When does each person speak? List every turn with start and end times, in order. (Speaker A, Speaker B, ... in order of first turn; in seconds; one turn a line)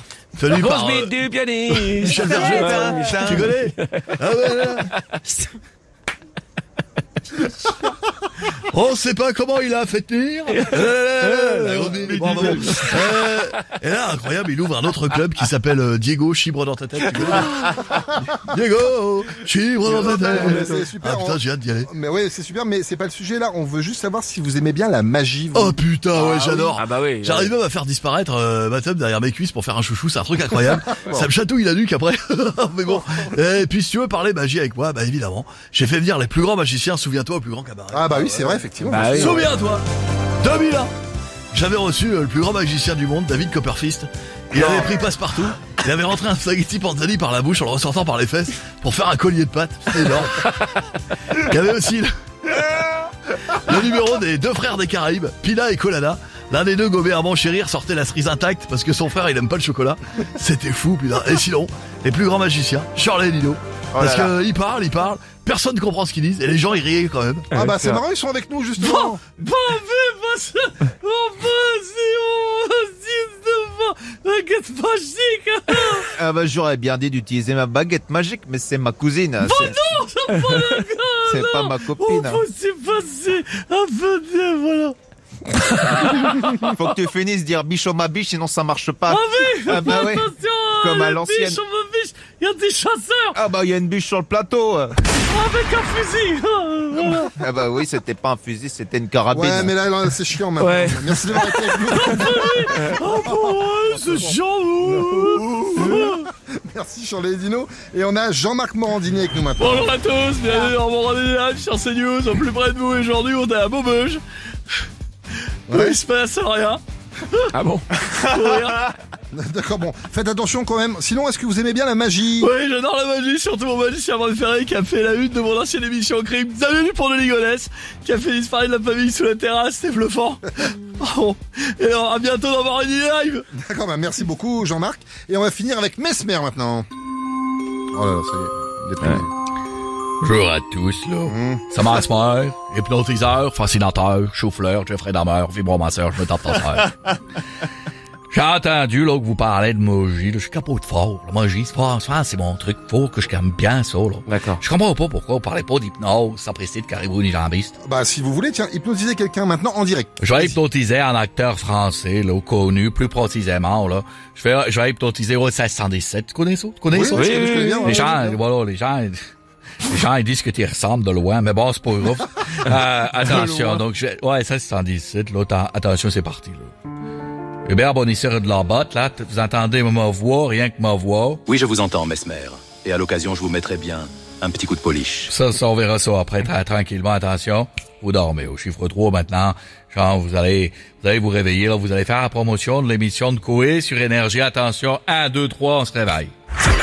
Speaker A: 0.4-4.9
Speaker B: 0.5-4.1
Speaker C: 2.1-3.6
Speaker A: 8.7-21.9
Speaker C: 12.1-13.1
Speaker D: 19.9-25.8
Speaker A: 25.5-39.8
Speaker B: 26.2-27.5
Speaker D: 31.0-31.3
Speaker D: 37.9-39.5
Speaker B: 38.8-39.4
Speaker C: 39.0-39.3
Speaker A: 40.4-40.9
Speaker A: 41.5-50.7
Speaker A: 51.3-52.6
Speaker A: 53.3-67.6
Speaker C: 63.9-64.4
Speaker B: 67.5-68.0
Speaker D: 67.5-69.2
Speaker E: 68.8-76.2
Speaker C: 76.2-79.8
Speaker E: 79.4-85.0
Speaker C: 81.3-82.4
Speaker E: 85.5-86.8
Speaker C: 86.7-91.6
Speaker E: 89.1-93.4
Speaker C: 93.3-95.0
Speaker E: 95.3-97.4
Speaker C: 97.4-99.7
Speaker D: 99.3-104.3
Speaker B: 100.6-101.2
Speaker E: 101.4-106.2
Speaker D: 104.9-109.9
Speaker E: 109.6-114.2
Speaker E: 115.7-116.8
Speaker D: 115.7-116.0
Speaker B: 117.5-117.8
Speaker E: 118.2-118.9
Speaker D: 119.3-122.5
Speaker E: 122.4-133.4
Speaker D: 133.6-136.9
Speaker D: 137.9-139.3
Speaker E: 140.2-147.0
Speaker D: 141.2-141.6
Speaker E: 148.3-157.8
Speaker B: 154.3-154.6
Speaker D: 157.8-160.6
Speaker E: 160.2-169.2
Speaker D: 166.9-168.4
Speaker B: 167.1-168.0
Speaker E: 169.9-176.7
Speaker D: 173.2-173.8
Speaker E: 177.7-181.4
Speaker F: 181.5-185.3
Speaker E: 185.3-196.3